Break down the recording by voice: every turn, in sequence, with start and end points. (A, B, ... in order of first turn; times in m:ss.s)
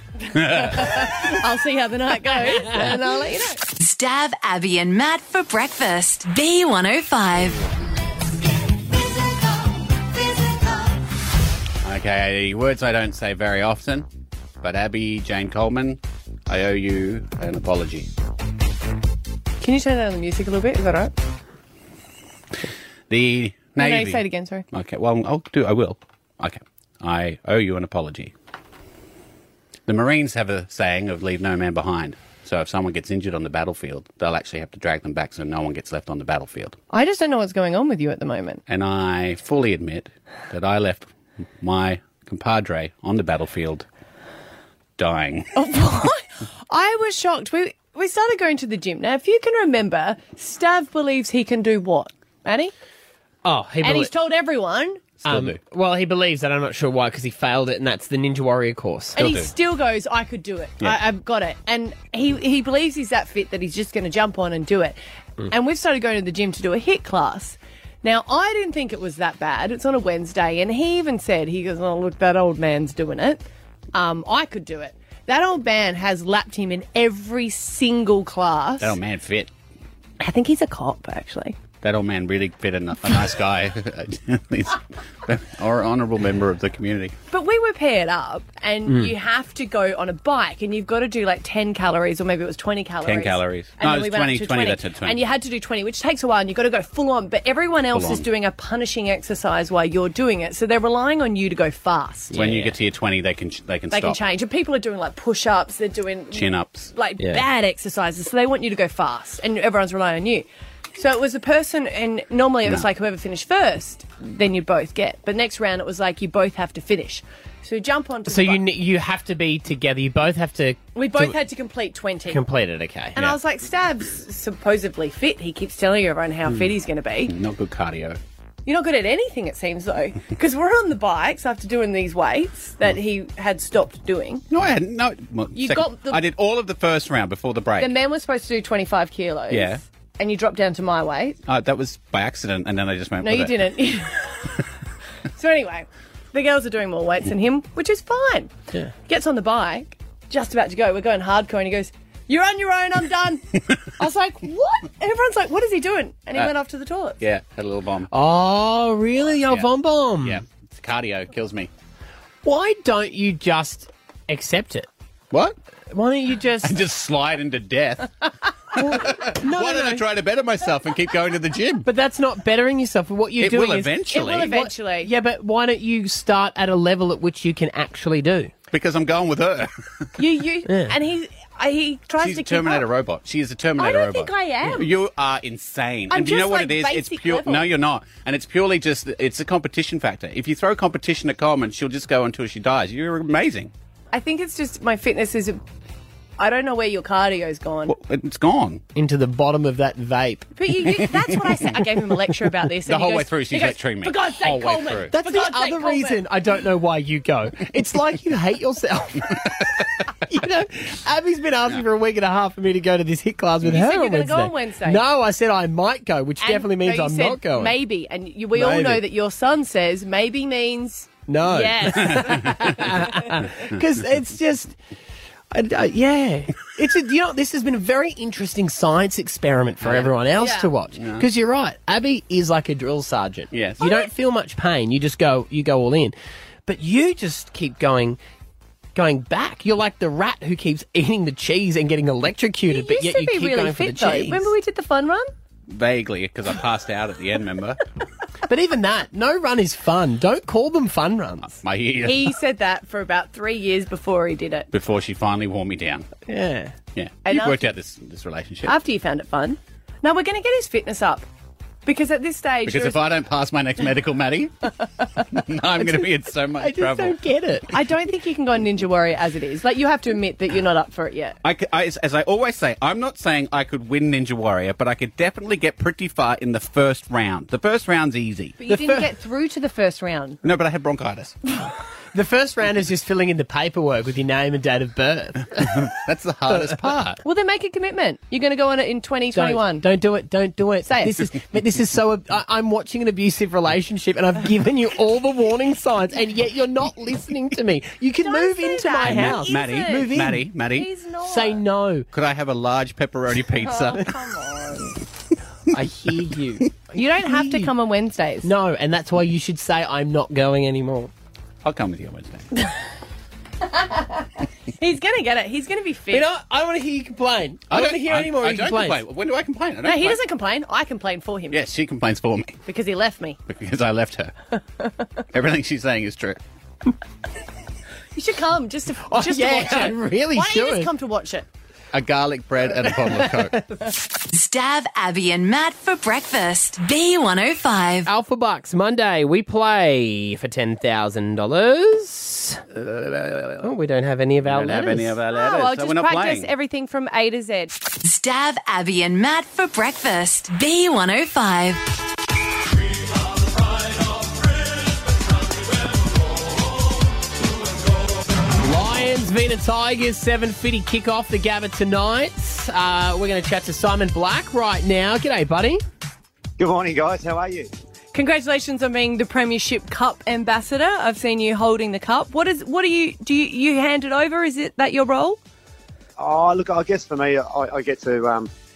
0:00.3-0:01.1 A
0:00.4-0:03.6 B
0:02.4-0:03.0 C
0:03.8-0:07.6 D
0:11.8-0:14.0 A
0:14.6-0:18.1 A
0:19.6-0:21.1 B
0:23.1-0:28.3 A
0:23.8-0:24.6 B
0:29.9-0:36.8 A
0:36.9-0:38.6 B
0:38.7-0:43.8 A
0:45.0-0:45.5 A
0:45.5-0:52.7 B
0:53.4-0:54.1 C
0:53.8-0:55.0 B
0:55.2-0:55.6 A
0:55.2-0:59.2 C
0:59.2-1:05.0 B
0:59.2-0:59.5 A
1:05.5-1:19.0 B
1:18.8-1:19.5 A
1:20.2-1:21.6 B
1:21.8-1:27.2 A
1:27.3-1:42.3 B
1:28.8-1:29.1 C
1:33.0-1:35.2 A
1:37.9-1:38.2 A
1:42.3-1:42.8 C
1:42.3-1:44.2 A
1:43.9-1:58.6 B
1:46.3-1:46.9 A
1:47.2-1:47.4 C
1:58.2-2:01.3 C
2:00.9-2:02.4 B
2:02.3-2:03.3 C
2:03.1-2:07.3 B
2:07.2-2:08.2 A
2:08.6-2:14.4 B
2:14.5-2:18.0 A
2:15.5-2:16.2 B
2:17.8-2:21.4 B
2:19.5-2:19.8 A
2:21.5-2:23.7 A
2:23.2-2:24.5 B
2:25.4-2:33.4 B
2:34.0-2:37.2 B
2:37.2-2:38.1 A
2:38.1-2:40.4 C
2:40.2-2:41.7 A
2:42.4-2:44.9 C
2:45.3-2:45.6 A
2:45.9-2:46.8 C
2:46.6-2:48.1 A
2:48.7-2:51.9 A
2:48.8-2:50.0 C
2:51.8-2:58.5 C
2:53.4-2:54.5 A
2:54.1-2:55.1 B
2:58.7-2:59.7 A
3:00.2-3:02.9 B
3:00.7-3:01.0 C
3:02.2-3:13.7 A
3:03.8-3:04.8 B
3:06.1-3:07.7 B
3:14.1-3:15.6 B
3:16.4-3:17.9 B
3:17.9-3:18.8 A
3:18.9-3:20.5 C
3:20.6-3:26.2 B
3:22.8-3:25.1 A
3:25.1-3:29.7 C
3:30.3-3:37.8 C
3:33.6-3:35.0 B
3:36.4-3:43.0 B
3:38.5-3:39.0 C
3:41.3-3:44.8 C
3:42.2-3:42.7 A
3:45.5-3:56.1 C
3:49.8-3:50.1 A
3:50.4-3:50.7 B
3:51.0-3:51.3 A
3:53.5-3:53.9 A
3:56.6-3:58.2 C
3:58.9-4:04.5 C
4:02.7-4:05.3 B
4:05.7-4:07.8 A
4:08.5-4:11.6 C
4:11.6-4:12.3 A
4:12.0-4:14.7 B
4:14.7-4:16.1 A
4:16.3-4:16.8 C
4:16.9-4:18.7 A
4:17.2-4:17.7 B
4:18.6-4:21.2 B
4:21.8-4:23.0 B
4:22.6-4:24.7 A
4:25.3-4:27.2 A
4:25.8-4:27.7 C
4:27.7-4:31.4 B
4:31.4-4:38.6 A
4:38.6-4:40.4 B
4:38.6-4:39.0 C
4:40.4-4:41.3 A
4:42.1-4:45.9 C
4:45.6-4:47.2 A
4:46.5-4:46.9 C
4:47.2-4:49.8 B
4:49.3-5:00.5 C
4:50.8-4:51.1 B
4:58.2-5:00.1 B
4:59.0-5:00.9 A
5:00.7-5:01.6 B
5:01.2-5:02.1 C
5:02.1-5:04.1 A
5:03.6-5:04.9 B
5:05.7-5:06.7 C
5:06.9-5:08.5 B
5:07.2-5:07.7 C
5:08.4-5:11.1 C
5:11.6-5:12.4 A
5:13.8-5:14.3 B
5:14.8-5:16.3 B
5:16.1-5:19.0 C
5:17.7-5:20.2 A
5:19.8-5:21.6 B
5:21.5-5:22.6 A
5:22.7-5:23.4 B
5:23.5-5:24.3 A
5:25.3-5:26.4 A
5:28.1-5:31.4 B
5:29.0-5:30.9 C
5:31.9-5:33.6 A
5:34.3-5:38.1 D
5:38.0-5:45.2 C
5:44.4-5:46.5 A
5:45.3-5:47.7 B
5:48.0-5:51.8 D
5:58.6-6:05.8 C
6:06.6-6:07.7 E
6:08.1-6:15.4 B
6:16.2-6:18.5 E